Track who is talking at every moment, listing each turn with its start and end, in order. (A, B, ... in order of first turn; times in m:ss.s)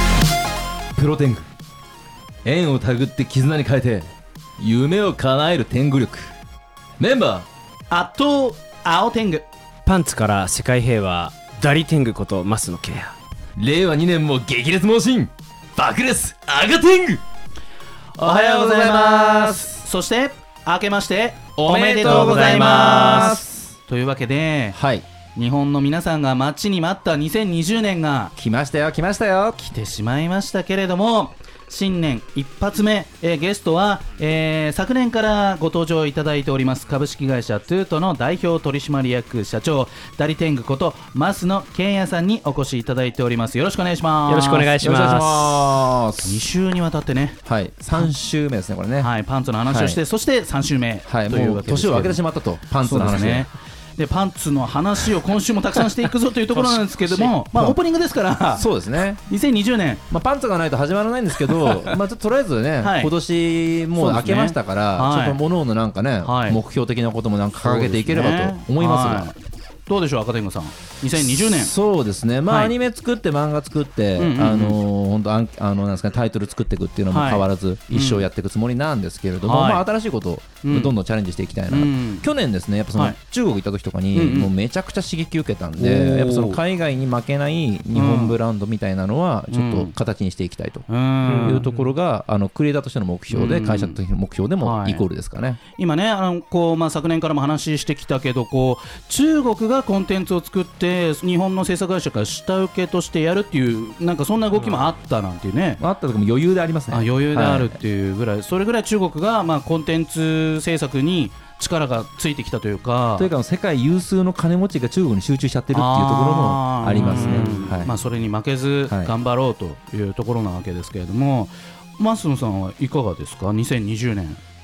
0:00.9-0:01.5 A
0:02.4-0:06.3 A
0:07.0-0:07.5 A
0:07.9-0:09.4 B
0:09.9-0:13.2 C
0:13.6-0:17.2 A
0:18.2-0:19.8 A
0:18.2-0:24.8 B
0:21.6-0:23.8 A
0:22.0-0:23.4 C
0:24.7-0:25.0 A
0:25.4-0:28.3 B
0:28.4-0:29.7 A
0:29.7-0:44.7 B
0:44.3-0:45.6 C
0:44.8-0:46.5 A
0:46.2-0:47.4 B
0:47.5-0:49.1 A
0:49.0-0:52.2 B
0:49.7-0:50.0 A
0:51.1-0:53.5 A
0:52.8-0:58.7 B
0:56.6-0:57.8 A
0:58.5-0:59.2 A
0:59.3-1:00.0 B
1:00.1-1:09.3 A
1:01.5-1:02.0 B
1:02.8-1:03.1 B
1:04.0-1:05.4 B
1:06.2-1:06.6 B
1:07.6-1:09.4 B
1:09.9-1:11.7 B
1:11.2-1:30.9 A
1:12.5-1:12.7 B
1:14.2-1:14.8 B
1:17.1-1:18.3 B
1:19.4-1:19.9 B
1:20.6-1:21.0 B
1:21.7-1:22.3 B
1:24.1-1:24.5 B
1:25.8-1:26.6 B
1:27.9-1:28.4 B
1:29.5-1:29.9 B
1:30.9-1:31.9 B
1:31.2-1:31.6 C
1:31.4-1:35.6 A
1:33.3-1:34.0 B
1:34.6-1:35.1 B
1:35.8-1:45.8 B
1:44.6-1:44.9 C
1:45.8-1:47.8 A
1:46.9-1:53.3 B
1:53.2-1:58.0 A
1:55.7-2:04.4 B
1:57.0-1:57.8 C